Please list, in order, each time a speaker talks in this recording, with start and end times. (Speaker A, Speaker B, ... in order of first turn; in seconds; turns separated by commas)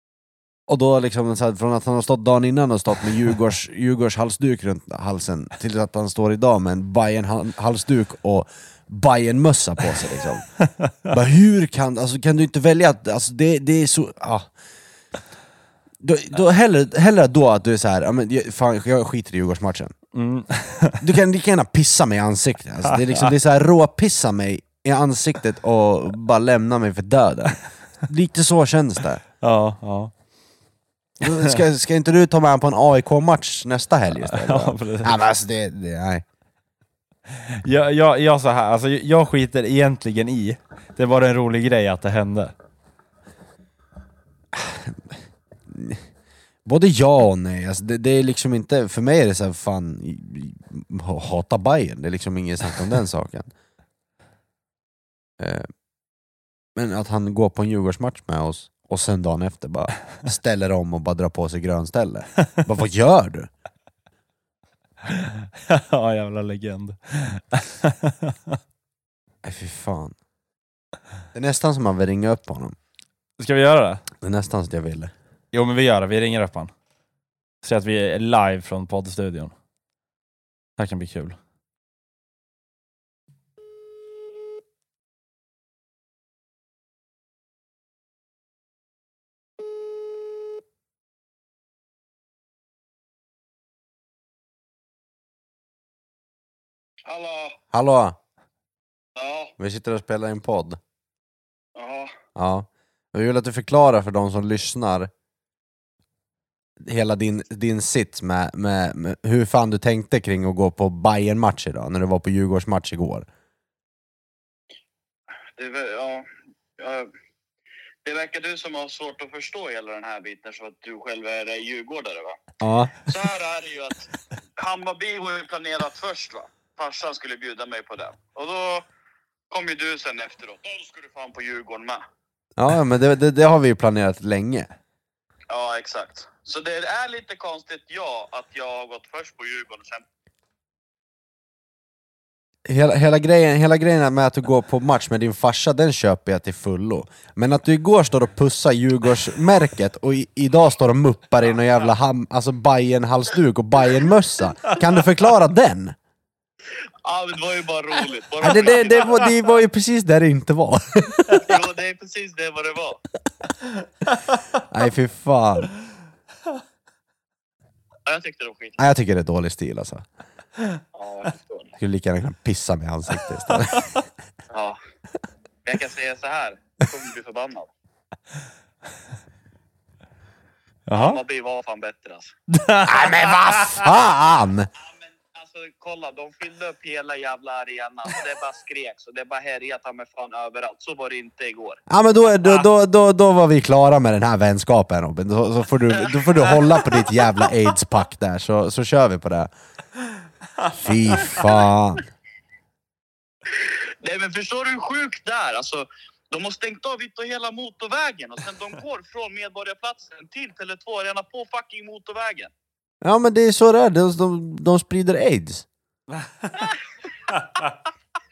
Speaker A: 0.7-10.5, Speaker A: 11.1-14.5, Speaker A: 16.0-19.9, Speaker B: 20.1-21.0, Speaker A: 21.0-29.2, Speaker B: 29.4-30.1, Speaker A: 31.2-36.2, Speaker B: 31.2-31.6, Speaker B: 34.1-35.2, Speaker B: 37.3-42.5, Speaker A: 44.5-46.0, Speaker A: 46.6-53.5, Speaker A: 55.4-55.7, Speaker A: 56.7-63.5, Speaker B: 65.0-68.6, Speaker A: 69.4-70.1, Speaker A: 71.3-72.8, Speaker B: 73.4-74.0, Speaker A: 74.2-75.1, Speaker B: 75.5-76.7, Speaker B: 77.6-79.5, Speaker B: 80.8-81.4, Speaker C: 97.0-97.6, Speaker A: 97.7-98.2, Speaker C: 99.2-99.5, Speaker A: 99.6-100.8, Speaker C: 101.7-102.1, Speaker A: 102.3-105.1, Speaker A: 106.8-113.3, Speaker C: 115.5-117.1, Speaker C: 118.0-122.4, Speaker A: 122.6-123.1, Speaker C: 123.0-128.8, Speaker C: 129.5-132.0, Speaker A: 132.6-134.7, Speaker C: 135.5-140.0, Speaker A: 142.7-155.9, Speaker C: 157.0-159.3, Speaker A: 158.4-161.6, Speaker C: 161.4-163.0, Speaker A: 164.7-165.7, Speaker C: 168.1-168.8, Speaker A: 168.8-170.0, Speaker C: 170.9-171.7, Speaker A: 171.8-174.0, Speaker C: 174.5-174.8, Speaker C: 175.6-177.7, Speaker B: 180.9-181.2, Speaker C: 180.9-182.3, Speaker B: 182.5-183.9, Speaker A: 182.8-184.7, Speaker C: 184.8-191.8, Speaker A: 191.9-199.5, Speaker C: 196.0-197.3, Speaker A: 200.7-202.1, Speaker C: 203.6-212.5, Speaker A: 213.0-215.7, Speaker B: 216.1-216.7